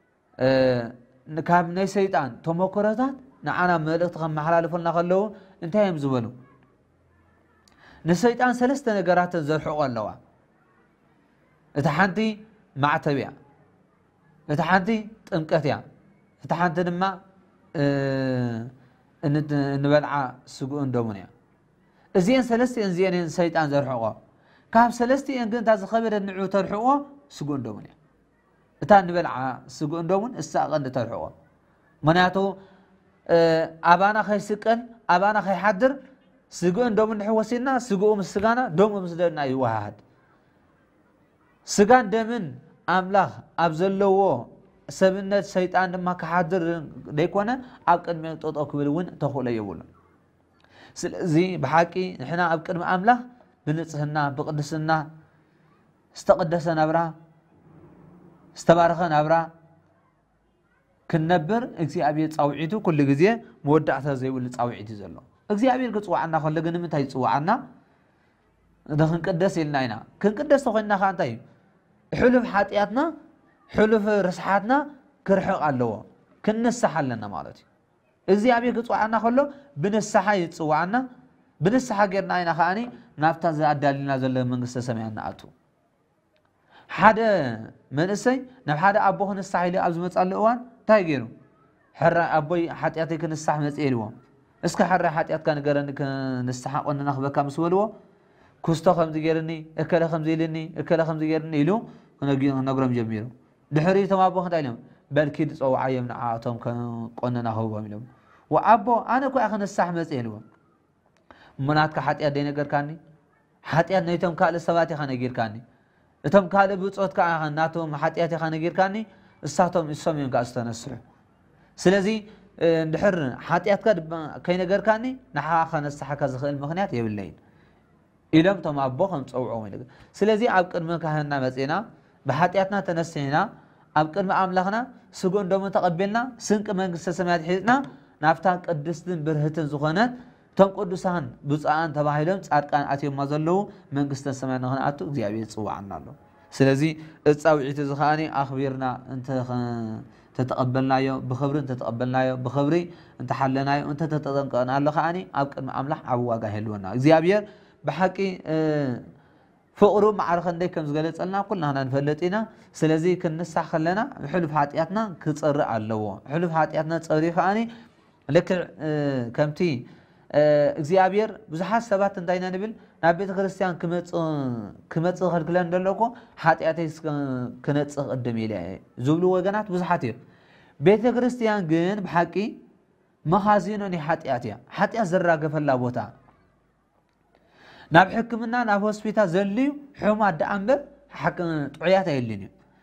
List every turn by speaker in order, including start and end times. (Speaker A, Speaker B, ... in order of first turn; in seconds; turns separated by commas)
Speaker A: 0.4-6.3, Speaker A: 8.1-10.2, Speaker A: 11.8-13.3, Speaker A: 14.5-15.8, Speaker A: 16.4-17.2, Speaker A: 17.8-18.7, Speaker A: 19.2-21.3, Speaker A: 22.2-24.2, Speaker A: 24.7-27.9, Speaker A: 28.8-31.3, Speaker A: 32.0-32.6, Speaker A: 33.3-36.0, Speaker A: 36.5-40.0, Speaker A: 41.7-49.9, Speaker A: 51.0-55.1, Speaker A: 56.1-57.1, Speaker A: 58.5-59.5, Speaker A: 61.1-67.6, Speaker A: 69.0-71.4, Speaker A: 72.2-73.1, Speaker A: 73.7-77.7, Speaker A: 78.3-81.0, Speaker A: 81.6-85.5, Speaker A: 86.9-91.3, Speaker A: 92.0-94.1, Speaker A: 94.6-97.9, Speaker A: 98.6-110.4, Speaker A: 111.6-113.0, Speaker A: 113.7-115.6, Speaker A: 116.3-121.0, Speaker A: 121.8-127.4, Speaker A: 128.3-159.0, Speaker A: 159.8-167.7, Speaker A: 168.3-180.2, Speaker A: 180.8-182.5, Speaker A: 183.3-186.1, Speaker A: 187.9-192.5